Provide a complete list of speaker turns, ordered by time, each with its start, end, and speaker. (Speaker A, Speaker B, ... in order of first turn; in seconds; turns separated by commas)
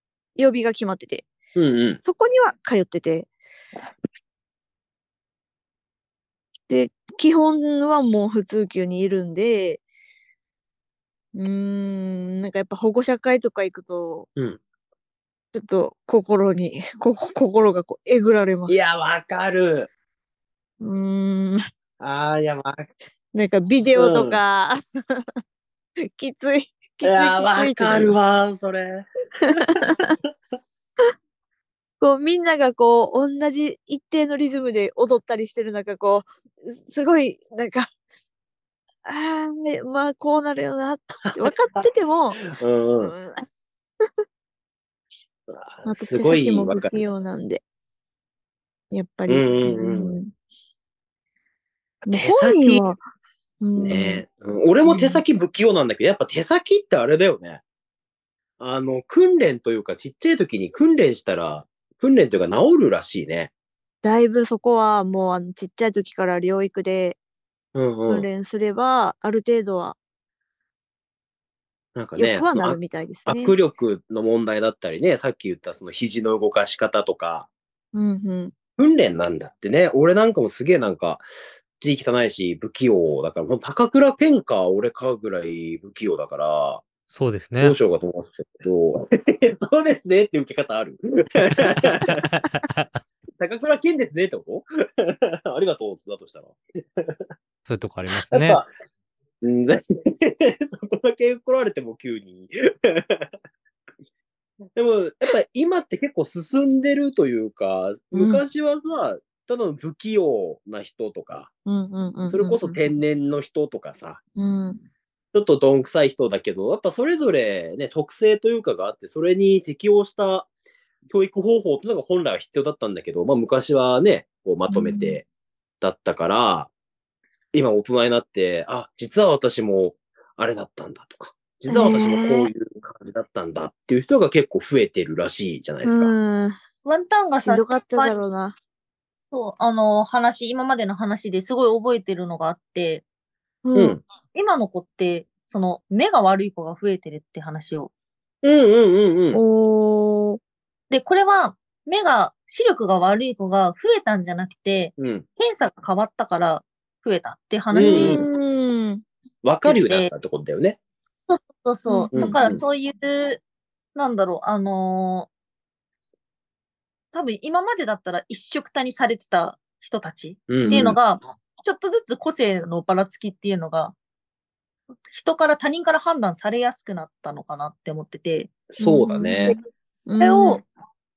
Speaker A: 0.4-1.3, Speaker B: 1.6-2.0, Speaker A: 2.0-3.3, Speaker A: 6.7-9.8, Speaker A: 11.3-14.3, Speaker A: 15.5-18.8, Speaker B: 18.7-19.9, Speaker A: 20.8-21.6, Speaker B: 22.0-22.9, Speaker A: 23.3-25.3, Speaker B: 23.9-24.4, Speaker A: 26.0-28.1, Speaker B: 27.0-30.0, Speaker A: 29.4-30.2, Speaker A: 32.0-37.9, Speaker A: 39.0-42.4, Speaker B: 42.4-43.1, Speaker A: 43.0-43.5, Speaker B: 45.5-47.0, Speaker A: 45.9-47.6, Speaker A: 48.9-50.3, Speaker B: 49.3-50.2, Speaker B: 52.0-52.8, Speaker A: 52.1-53.0, Speaker A: 53.6-54.2, Speaker B: 53.8-57.6, Speaker A: 54.9-55.2, Speaker B: 58.6-63.5, Speaker A: 64.0-67.2, Speaker B: 67.8-68.3, Speaker A: 68.1-70.0, Speaker B: 72.0-77.5, Speaker A: 72.2-73.5, Speaker A: 77.9-78.5, Speaker B: 78.8-81.2, Speaker B: 81.8-86.8, Speaker C: 87.1-87.8, Speaker B: 87.6-92.2, Speaker C: 91.5-93.0, Speaker B: 93.4-97.2, Speaker C: 97.7-98.6, Speaker B: 98.1-98.7, Speaker B: 99.4-103.3, Speaker B: 104.8-111.5, Speaker A: 108.1-108.4, Speaker A: 111.7-112.8, Speaker B: 112.3-114.2, Speaker A: 114.4-114.8, Speaker B: 115.3-120.5, Speaker B: 121.1-125.2, Speaker A: 124.7-125.2, Speaker B: 125.8-126.7, Speaker B: 127.5-136.1, Speaker A: 131.7-132.5, Speaker A: 135.8-136.6, Speaker D: 136.8-138.1, Speaker A: 137.4-138.6, Speaker D: 139.3-143.0, Speaker A: 143.7-144.0, Speaker B: 143.8-144.0, Speaker D: 144.3-147.9, Speaker B: 148.4-149.4, Speaker A: 149.3-150.4, Speaker D: 150.9-158.2, Speaker B: 155.0-155.2, Speaker B: 157.7-158.3, Speaker A: 157.8-159.0, Speaker B: 159.4-160.8, Speaker D: 159.7-160.1, Speaker D: 161.3-163.4, Speaker A: 161.9-162.1, Speaker B: 162.1-162.6, Speaker D: 163.9-165.3, Speaker D: 167.1-173.9, Speaker B: 170.5-171.0, Speaker A: 170.7-170.9, Speaker D: 175.1-178.5, Speaker B: 178.7-179.6, Speaker A: 178.8-179.6, Speaker A: 180.1-180.6, Speaker D: 180.2-180.7